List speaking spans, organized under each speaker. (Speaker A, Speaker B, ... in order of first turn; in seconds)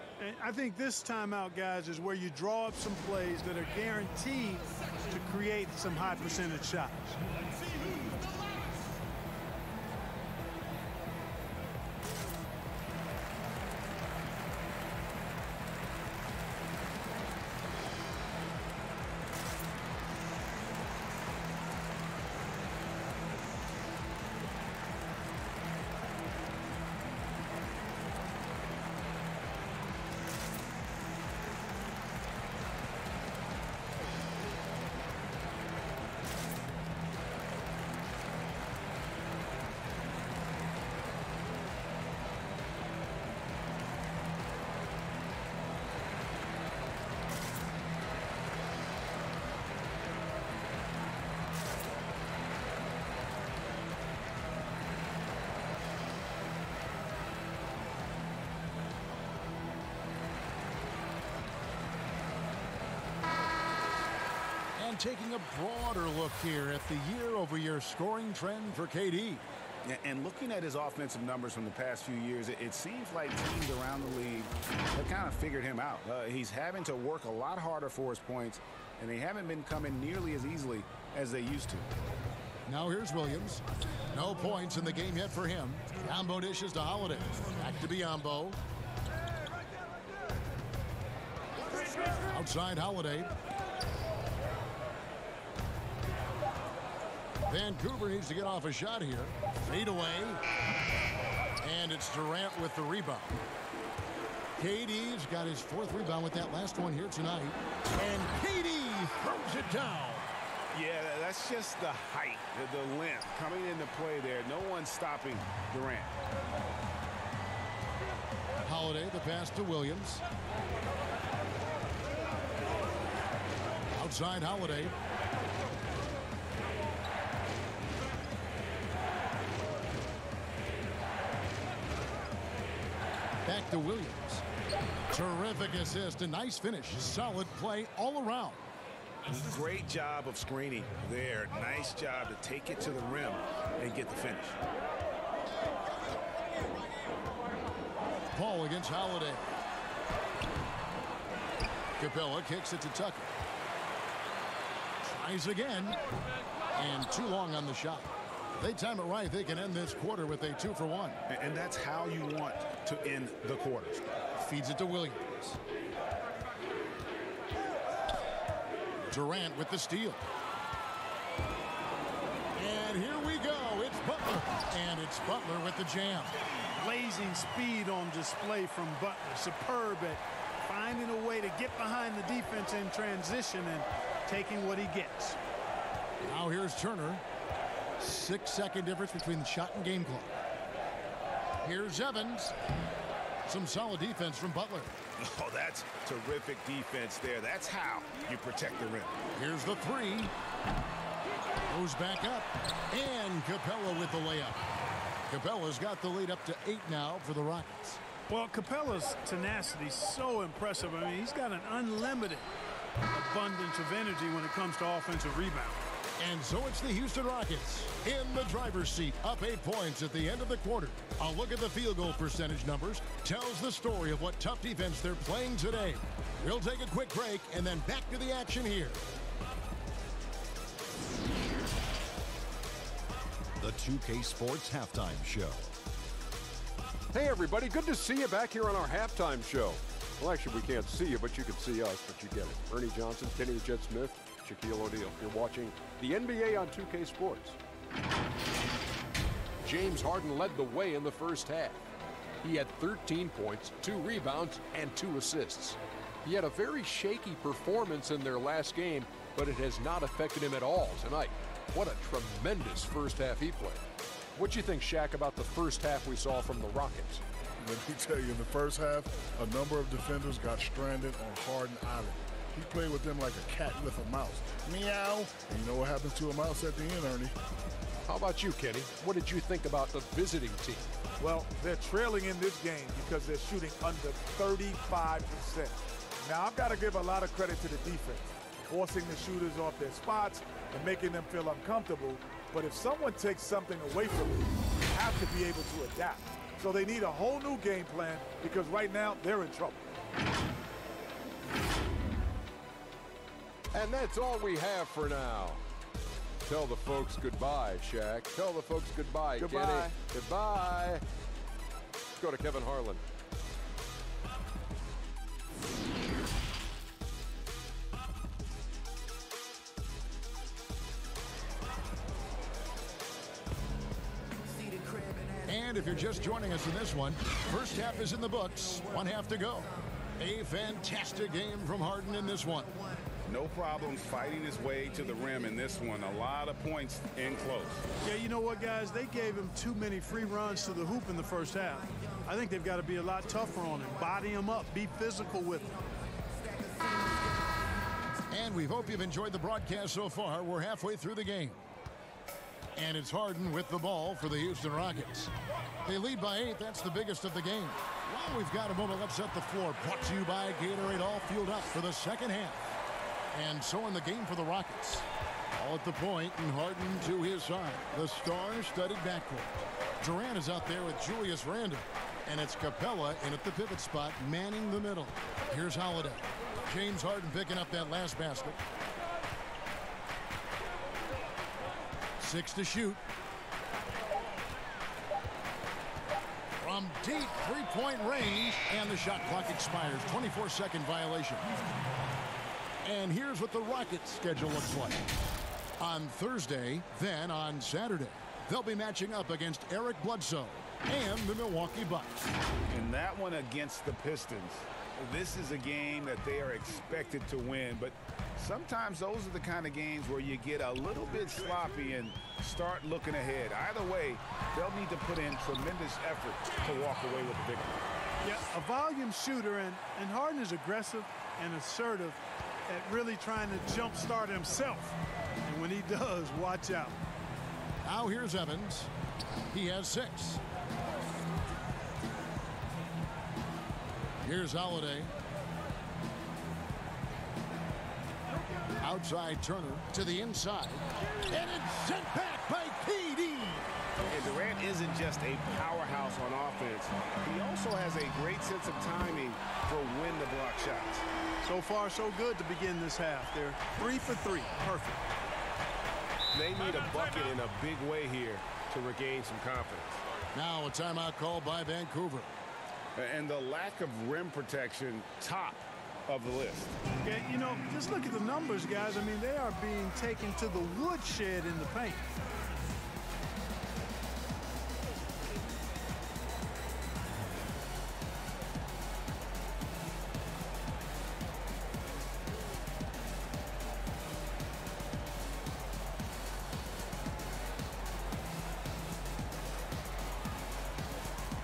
Speaker A: 0.2-7.2, 176.8-185.4, 208.3-212.5, 213.1-215.8, 338.0-345.8, 418.2-427.0, 451.4-455.0, 467.0-472.1
Speaker B: 64.8-69.4, 82.7-88.6, 92.2-93.3, 97.5-100.4, 101.6-103.4, 104.6-110.3, 118.6-120.2, 123.9-125.0, 133.4-134.4, 135.1-138.7, 148.3-149.5, 152.0-153.3, 155.0-156.0, 156.7-161.2, 164.4-165.6, 169.1-170.2, 172.5-176.3, 186.2-187.2, 188.0-190.3, 191.6-192.5, 193.5-194.9, 199.3-200.3, 201.7-204.6, 205.3-208.0, 216.2-229.0, 325.4-332.8, 348.3-351.6, 352.8-355.3, 355.9-362.6, 363.3-378.6, 382.2-383.0, 386.6-391.7, 392.8-395.0, 395.8-402.3, 427.8-428.9, 429.5-430.4, 434.2-435.1, 438.8-443.7, 460.3-462.3
Speaker C: 69.8-81.9, 110.7-116.1, 139.2-144.6, 161.3-164.1, 195.2-199.1, 333.2-337.8, 402.7-417.8, 444.1-451.0, 456.3-460.0, 463.0-466.7
Speaker D: 233.6-235.7
Speaker E: 237.1-247.6, 249.6-251.8, 252.4-263.8, 264.4-267.2, 278.1-280.9, 303.7-305.6, 306.4-311.0, 312.2-313.0
Speaker F: 267.6-277.3
Speaker G: 281.2-299.8, 309.4-309.9